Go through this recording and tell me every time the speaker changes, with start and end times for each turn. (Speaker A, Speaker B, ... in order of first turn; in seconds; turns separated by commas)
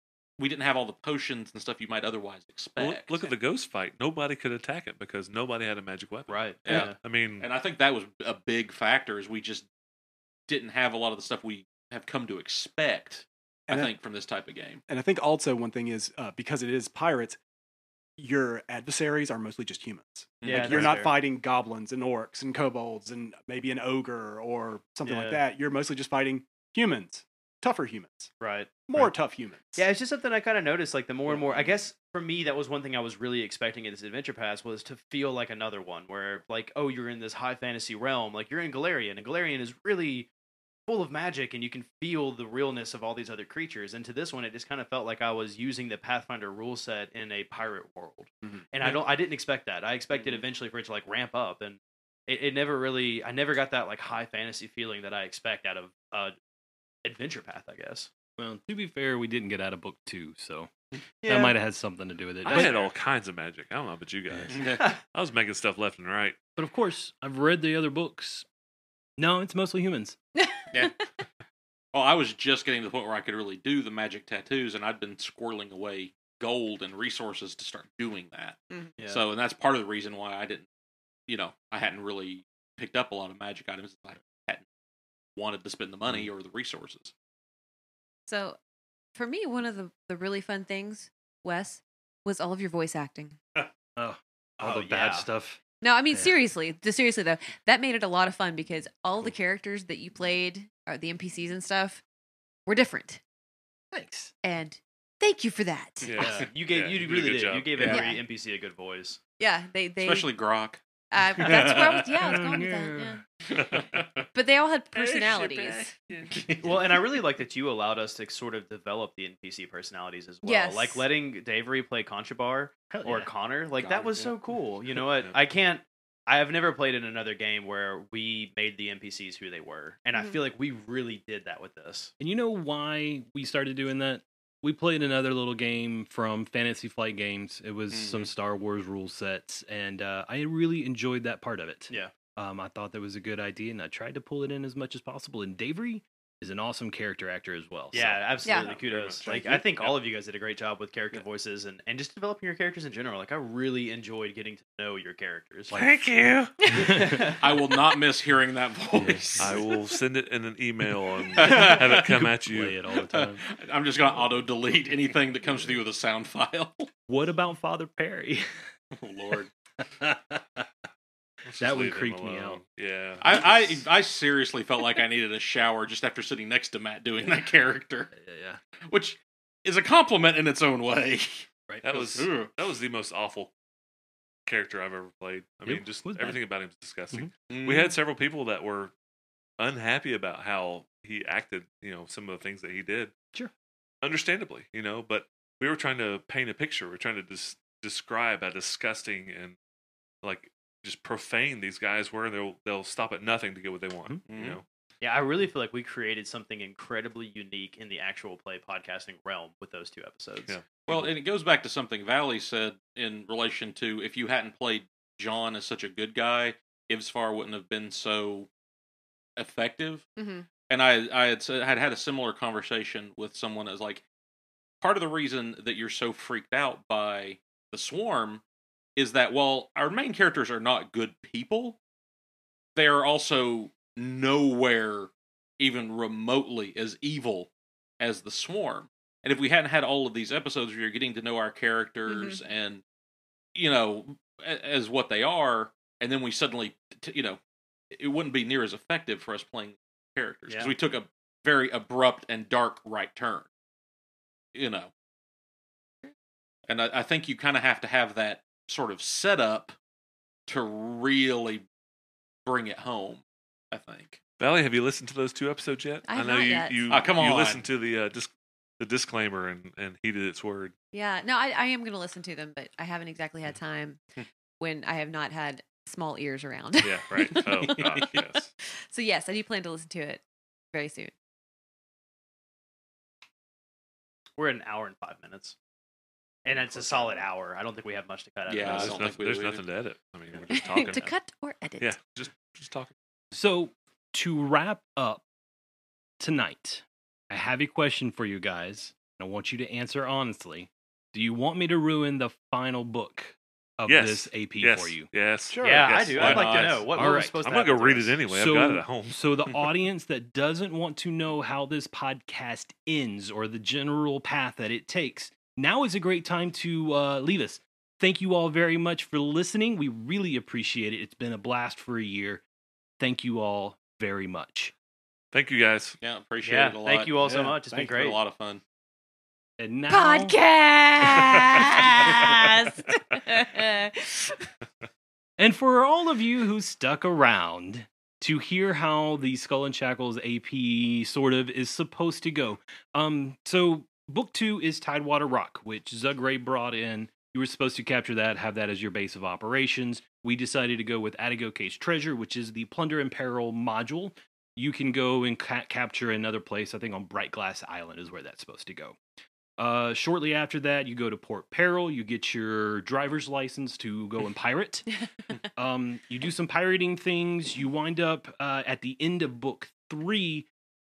Speaker A: 0.4-3.3, Speaker B: 2.8-7.5, Speaker C: 6.3-7.0, Speaker A: 6.6-9.7, Speaker A: 10.5-14.8, Speaker D: 13.7-13.9, Speaker D: 14.9-17.4, Speaker D: 18.2-28.3, Speaker A: 20.4-20.9, Speaker C: 20.4-21.1, Speaker C: 25.1-25.4, Speaker C: 28.4-29.1, Speaker D: 28.9-29.8, Speaker C: 29.8-40.3, Speaker C: 40.9-56.3, Speaker C: 57.0-58.1, Speaker E: 58.4-60.7, Speaker C: 61.2-61.6, Speaker E: 61.3-62.7, Speaker B: 62.4-66.4, Speaker C: 62.5-62.9, Speaker A: 64.5-64.8, Speaker E: 66.5-68.5, Speaker E: 69.2-70.2, Speaker F: 70.4-70.9, Speaker A: 71.9-80.7, Speaker C: 79.0-79.2, Speaker A: 81.3-84.6, Speaker A: 85.3-87.1, Speaker F: 88.3-88.6, Speaker F: 89.2-93.4, Speaker E: 94.0-95.6, Speaker C: 94.6-95.3, Speaker F: 95.8-102.0, Speaker F: 102.7-103.2, Speaker E: 103.9-104.3, Speaker F: 104.4-106.2, Speaker B: 106.0-107.9, Speaker C: 106.2-109.2, Speaker A: 107.8-108.0, Speaker F: 107.8-108.2, Speaker F: 109.4-110.4, Speaker A: 110.0-110.8, Speaker F: 111.1-113.2, Speaker A: 111.3-112.2, Speaker E: 112.2-113.2, Speaker A: 113.5-114.2, Speaker B: 113.6-113.8, Speaker F: 114.3-115.9, Speaker B: 114.9-116.3, Speaker A: 116.3-116.8, Speaker C: 116.6-132.1, Speaker F: 120.4-121.0, Speaker E: 122.9-123.3, Speaker A: 123.8-124.4, Speaker E: 132.2-148.4, Speaker A: 137.9-138.3, Speaker C: 147.9-155.7, Speaker F: 148.4-148.8, Speaker B: 148.5-150.0, Speaker E: 149.2-149.5, Speaker E: 155.7-156.0, Speaker B: 155.7-156.5, Speaker E: 156.7-157.2, Speaker C: 156.7-157.4, Speaker A: 157.4-159.7, Speaker E: 158.9-159.6, Speaker B: 159.4-162.8, Speaker A: 161.3-162.2, Speaker E: 161.9-163.4, Speaker A: 163.0-166.9, Speaker E: 167.1-168.5, Speaker A: 168.9-169.5, Speaker E: 169.8-170.6, Speaker B: 171.4-173.8, Speaker E: 171.6-172.6, Speaker A: 173.2-178.1, Speaker E: 178.1-178.6, Speaker A: 178.8-182.5, Speaker B: 181.8-183.5, Speaker B: 184.4-188.9, Speaker E: 185.7-186.4, Speaker A: 187.5-187.9, Speaker B: 189.6-193.1, Speaker B: 194.0-199.6, Speaker B: 200.2-204.6, Speaker A: 204.3-204.6, Speaker C: 205.0-210.5, Speaker B: 210.4-211.1, Speaker A: 210.9-218.5, Speaker A: 219.4-220.1, Speaker F: 220.2-220.4, Speaker A: 220.7-224.0, Speaker A: 224.8-228.4, Speaker A: 228.9-231.8, Speaker A: 232.8-242.8, Speaker F: 242.1-242.4, Speaker A: 243.5-247.4, Speaker A: 247.9-253.5, Speaker A: 254.5-254.9, Speaker A: 256.7-259.7, Speaker A: 260.5-261.6, Speaker A: 262.4-264.2, Speaker B: 264.4-270.7, Speaker F: 266.0-266.9, Speaker A: 266.9-267.6, Speaker F: 270.9-274.0, Speaker F: 274.6-277.5, Speaker B: 276.8-278.5, Speaker A: 277.3-278.2, Speaker F: 278.8-280.2, Speaker F: 280.7-281.1, Speaker C: 284.4-285.6, Speaker C: 286.4-289.1, Speaker B: 286.5-287.2, Speaker A: 288.5-289.6, Speaker B: 288.7-291.1, Speaker F: 290.5-291.9, Speaker B: 291.8-292.9, Speaker E: 293.3-295.2, Speaker E: 296.2-305.1, Speaker B: 303.9-309.7, Speaker D: 305.5-306.4, Speaker C: 305.6-308.2, Speaker A: 306.1-306.9, Speaker E: 306.9-307.4, Speaker E: 308.3-322.4, Speaker E: 323.0-324.7, Speaker B: 325.3-326.0, Speaker A: 326.0-328.6, Speaker C: 326.4-328.2, Speaker D: 327.2-327.6, Speaker E: 329.6-330.4, Speaker F: 329.9-334.5, Speaker E: 335.4-359.0, Speaker E: 359.6-364.9, Speaker E: 365.6-370.5